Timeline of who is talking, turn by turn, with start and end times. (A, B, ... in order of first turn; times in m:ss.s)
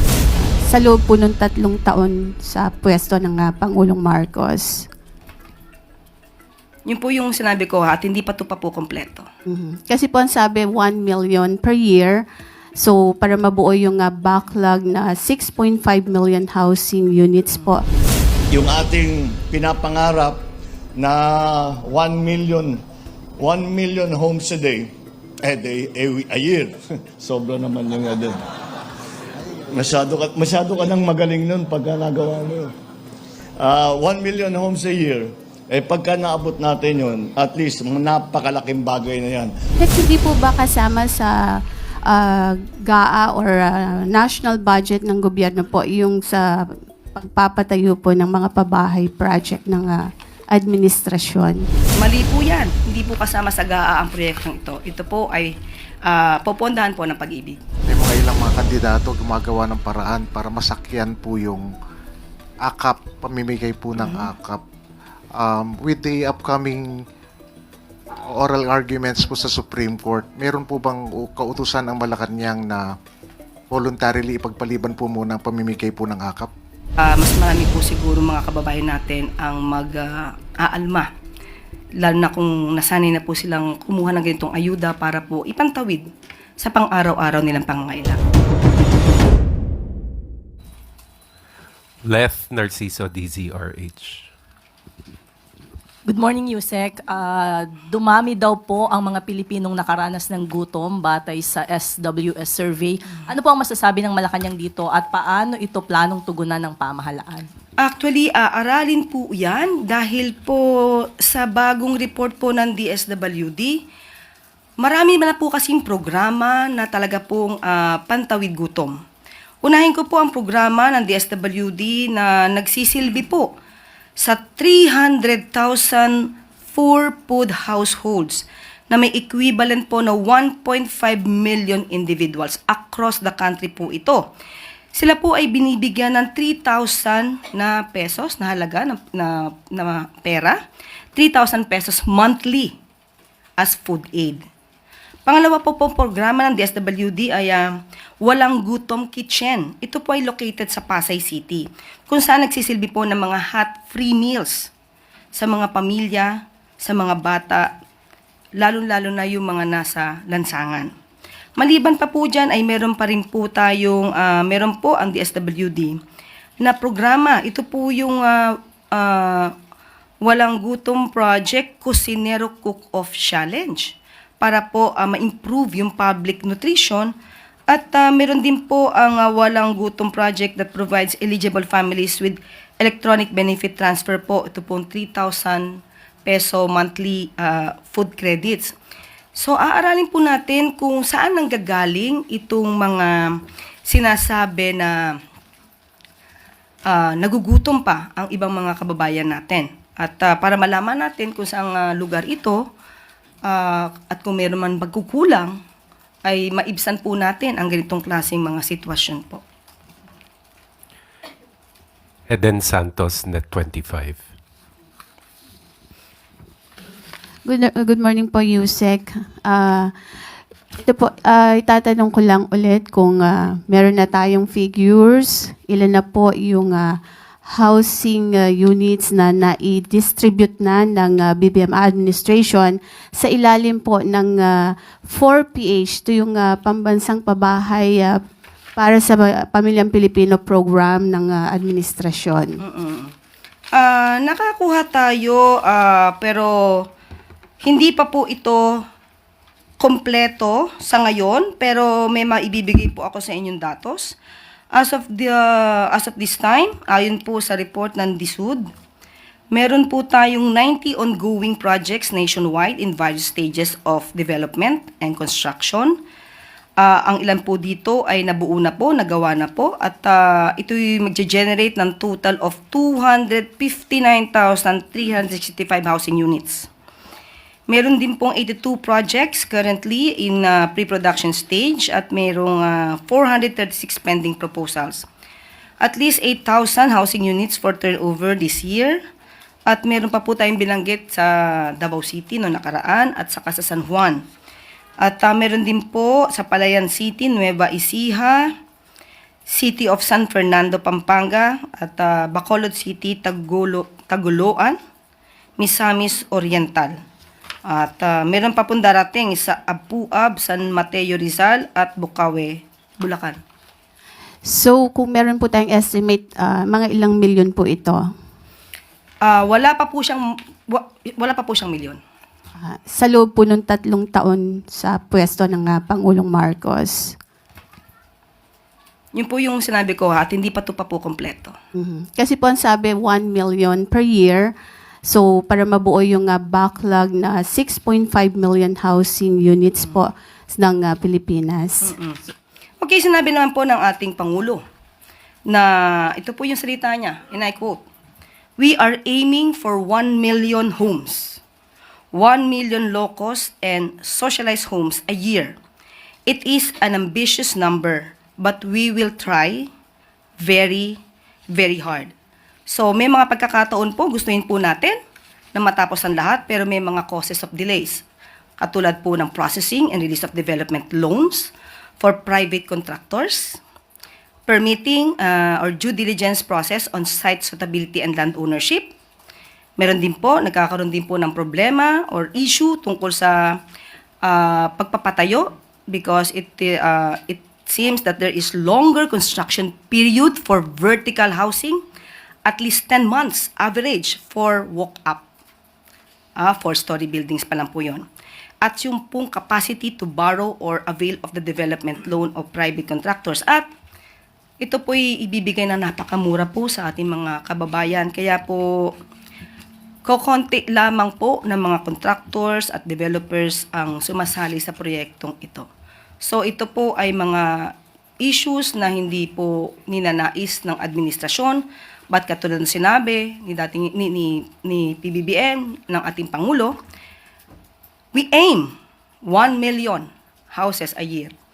0:00.6-0:04.9 A
0:06.9-0:09.3 B
0:09.5-0:12.2 A
0:12.8-0:17.8 A
0:18.5-0:20.4 C
0:21.0-0:22.8 C
0:23.4-0:24.9 C
0:25.4-0:28.4 C
0:29.7-0:32.7 C
0:33.6-0:39.5 C
0:39.8-0:41.4 A
0:42.1-0:51.7 A
0:52.0-0:55.5 B
0:56.1-0:57.6 B
0:57.9-1:01.7 D
1:02.6-1:04.6 D
1:04.0-1:04.3 B
1:05.4-1:07.0 D
1:08.3-1:12.9 D
1:13.7-1:16.5 D
1:17.1-1:21.1 B
1:22.0-1:28.2 B
1:32.0-1:34.3 E
1:36.1-1:47.2 F
1:47.8-1:53.9 B
1:54.8-1:59.0 B
1:59.6-2:03.5 B
2:04.2-2:14.3 B
2:15.0-2:20.6 B
2:21.2-2:22.8 B
2:23.6-2:24.4 B
2:25.3-2:34.7 B
2:35.4-2:37.7 B
2:38.6-2:40.9 B
2:41.6-2:46.0 B
2:46.6-2:49.5 B
2:50.2-2:57.1 B
2:57.7-3:08.8 B
3:09.4-3:13.4 B
3:13.9-3:15.2 B
3:16.9-3:22.6 B
3:23.4-3:25.6 B
3:26.2-3:29.4 B
3:32.3-3:34.2 E
3:37.5-3:39.9 A
3:40.8-3:58.2 A
3:58.8-4:02.6 A
4:02.6-4:03.1 B
4:03.7-4:06.9 B
4:07.6-4:08.8 B
4:09.8-4:14.2 B
4:14.7-4:18.7 B
4:19.5-4:26.0 B
4:26.8-4:36.7 B
4:37.7-4:45.1 B
4:45.8-4:49.0 B
4:49.7-4:54.2 B
4:55.0-4:58.5 B
4:59.5-5:04.8 B
5:05.6-5:07.0 B
5:07.7-5:13.4 B
5:14.4-5:18.1 A
5:19.2-5:22.0 B
5:22.6-5:27.2 A
5:29.1-5:31.6 B
5:31.8-5:34.5 A
5:35.0-5:41.9 A
5:41.8-5:42.2 B
5:42.8-5:44.6 B
5:45.5-5:47.9 B
5:48.6-5:51.4 B
5:52.1-5:55.6 B
5:56.3-5:59.7 B
6:00.4-6:01.0 B
6:01.5-6:02.1 B
6:02.7-6:05.0 B
6:05.6-6:08.0 B
6:08.6-6:13.6 B
6:14.5-6:18.9 B
6:19.8-6:23.6 B
6:24.2-6:31.8 B
6:32.5-6:35.2 B
6:36.4-6:38.0 B
6:38.6-6:43.7 B
6:44.6-6:48.9 B
6:50.0-6:55.7 B
6:56.2-7:06.8 B
7:08.1-7:08.7 B
7:09.2-7:11.3 B